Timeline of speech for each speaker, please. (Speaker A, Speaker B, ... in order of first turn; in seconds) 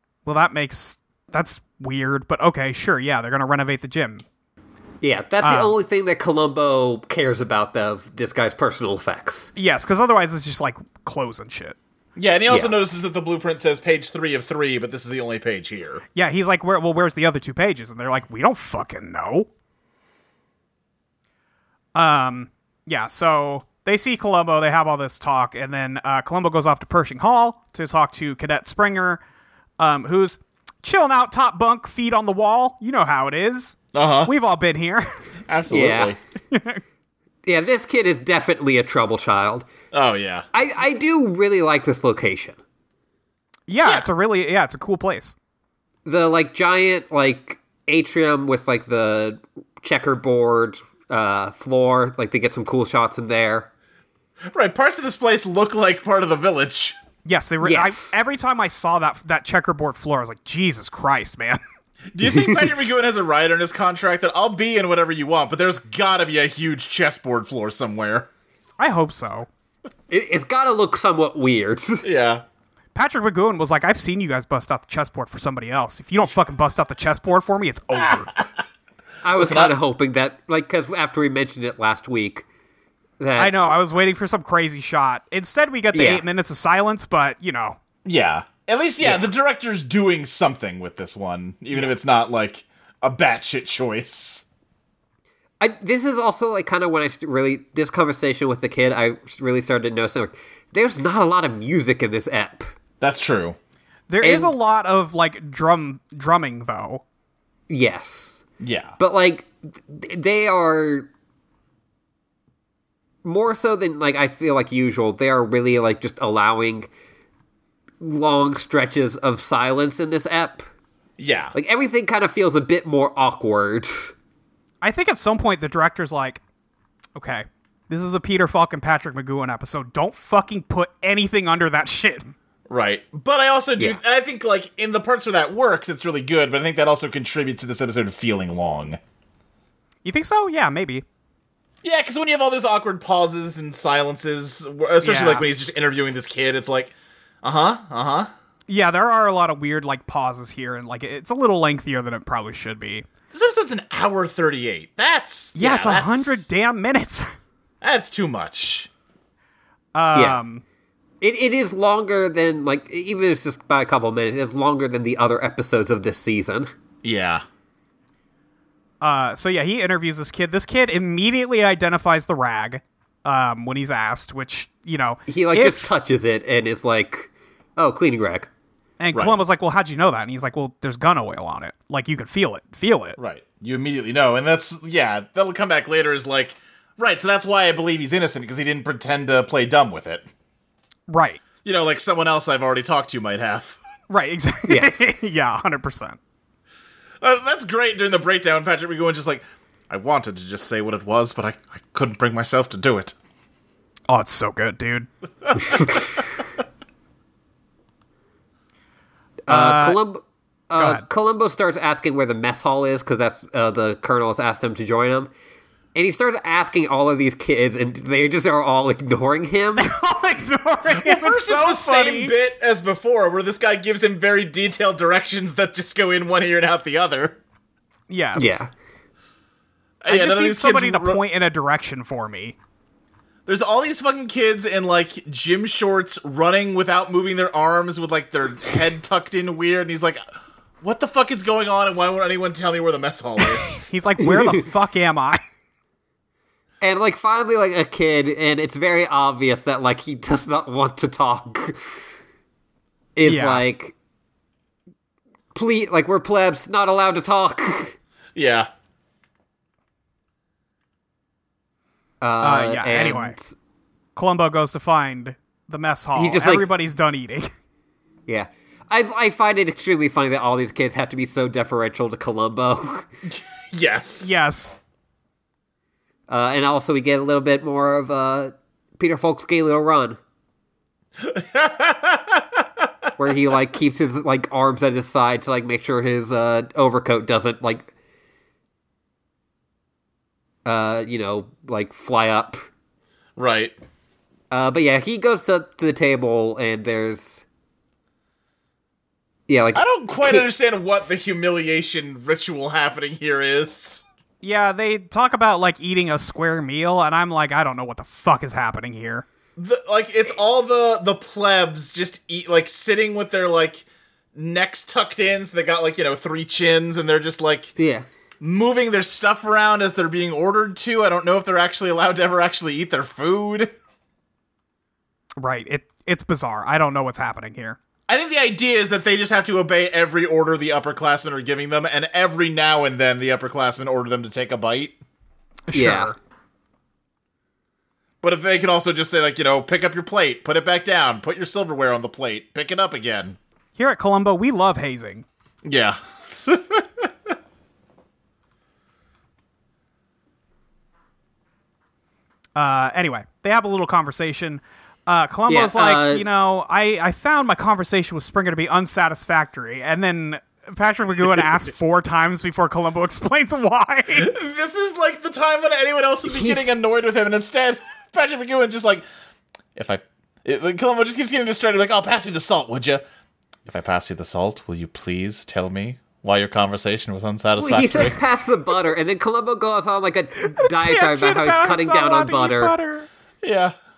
Speaker A: 0.2-4.2, 5.4-5.7, 9.6-11.8, 16.1-19.5, 21.9-29.2, 29.8-35.1, 36.5-36.8, 43.7-45.4, 57.2-61.6, 68.8-69.5, 73.0-78.3, 83.4-87.8, 104.1-107.0, 124.8-126.4, 127.2-132.3, 140.0-141.0, 145.0-145.5, 148.7-153.1, 155.6-157.3, 159.9-160.6, 169.0-175.9, 179.0-183.2, 191.1-191.4, 194.1-196.2, 204.1-205.1, 209.5-210.0, 210.8-211.1, 219.8-222.3, 228.1-228.6, 230.1-232.6, 243.9-245.4, 253.2-253.6, 262.4-263.4, 264.2-267.5, 274.2-274.8, 304.4-309.2, 325.4-327.8, 335.7-336.2, 343.8-345.3, 352.6-364.3, 380.4-383.1
Speaker B: 5.0-9.5, 12.5-12.7, 35.7-36.1, 37.5-39.7, 40.5-42.6, 46.1-53.7, 57.6-58.2, 70.1-72.0, 79.2-82.5, 83.2-83.5, 85.9-86.2, 89.0-89.3, 95.6-102.8, 104.2-104.5, 107.7-108.5, 109.0-111.1, 113.2-116.9, 118.0-120.7, 121.5-124.1, 161.2-166.7, 175.3-178.5, 194.7-195.1, 209.5-215.3, 215.9-219.9, 228.4-228.7, 244.2-244.7, 246.8-252.1, 253.2-253.9, 255.5-258.0, 262.2-263.5, 266.2-266.7, 268.3-273.1, 276.3-280.2, 283.2-287.9, 290.6-292.6, 294.5-297.4, 299.5-300.5, 317.8-318.1, 335.7-336.1, 355.5-356.3, 366.2-366.8, 377.6-382.8
Speaker C: 12.2-16.0, 33.9-34.3, 35.5-36.2, 39.9-40.5, 54.5-57.0, 62.1-68.3, 72.0-72.4, 79.4-79.7, 88.0-94.5, 103.0-103.6, 108.6-109.0, 121.2-121.5, 132.7-139.0, 141.8-148.3, 153.3-156.5, 157.8-158.9, 167.0-167.4, 183.2-190.3, 191.6-193.8, 197.2-203.2, 220.9-227.4, 230.0-231.2, 233.5-240.2, 240.8-243.9, 258.4-258.7, 273.3-274.4, 281.2-282.9, 293.4-293.8, 299.7-304.0, 309.6-317.7, 318.4-323.7, 328.1-335.0, 338.2-343.4, 345.6-347.3, 364.1-369.1, 369.8-373.0, 373.7-378.2, 383.4-383.7